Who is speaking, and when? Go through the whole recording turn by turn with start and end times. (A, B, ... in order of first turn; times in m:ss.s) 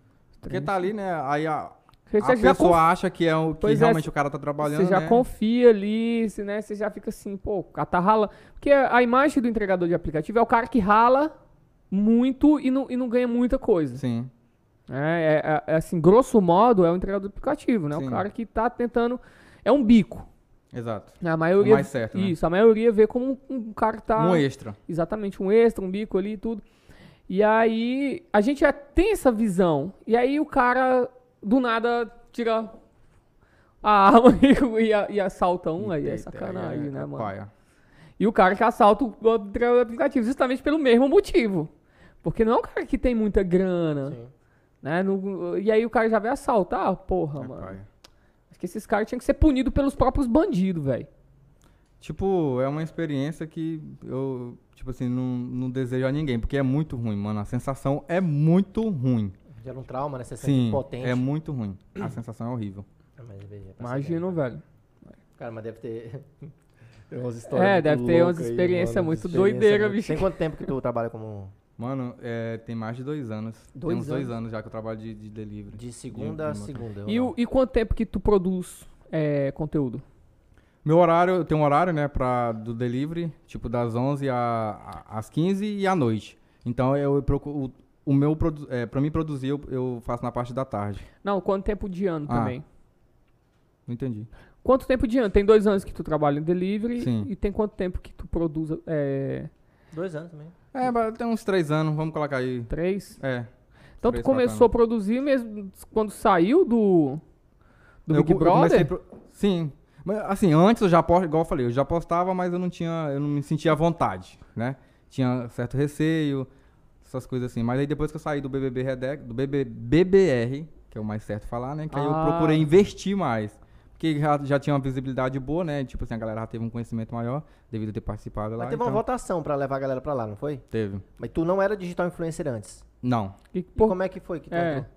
0:00.4-0:00.8 A
0:00.5-0:05.2 B
0:02.1-0:02.8 A
0:03.6-0:04.1 A
0:04.6-0:11.3 A
0:11.9-0:14.0 A
0:14.0-0:14.3 B
0:14.9-0:20.3 A
0:17.9-0:18.2 B
0:20.7-0:22.4 B
0:21.2-0:26.6 A
0:24.2-0:24.8 B
0:27.3-0:32.7 A
0:33.8-0:37.3 A
0:35.8-0:37.5 B
0:38.2-0:41.7 A
0:42.2-0:44.2 A
0:44.0-0:44.3 C
0:44.8-0:47.8 A
0:47.4-0:47.8 B
0:48.5-0:51.1 A
0:52.0-0:59.3 B
0:59.5-1:01.2 C
1:00.4-1:02.8 B
1:03.2-1:04.4 C
1:03.8-1:04.6 A
1:05.4-1:06.5 C
1:07.1-1:11.5 C
1:07.5-1:10.3 A
1:11.8-1:16.8 B
1:13.8-1:14.3 A
1:15.7-1:17.3 C
1:17.0-1:20.0 A
1:20.8-1:31.1 B
1:31.2-1:32.6 A
1:32.3-1:32.5 B
1:33.9-1:34.3 B
1:34.6-1:39.5 A
1:37.0-1:37.3 B
1:39.9-1:40.5 C
1:40.7-1:43.5 B
1:42.7-1:43.2 A
1:44.0-1:44.7 B
1:44.0-1:47.2 A
1:48.0-1:48.9 A
1:48.1-1:56.5 B
1:57.0-2:09.0 B
2:01.9-2:02.6 A
2:08.6-2:10.6 C
2:10.7-2:11.0 B
2:11.2-2:12.8 C
2:13.0-2:13.3 B
2:13.5-2:14.0 A
2:13.8-2:14.9 C
2:14.5-2:14.8 A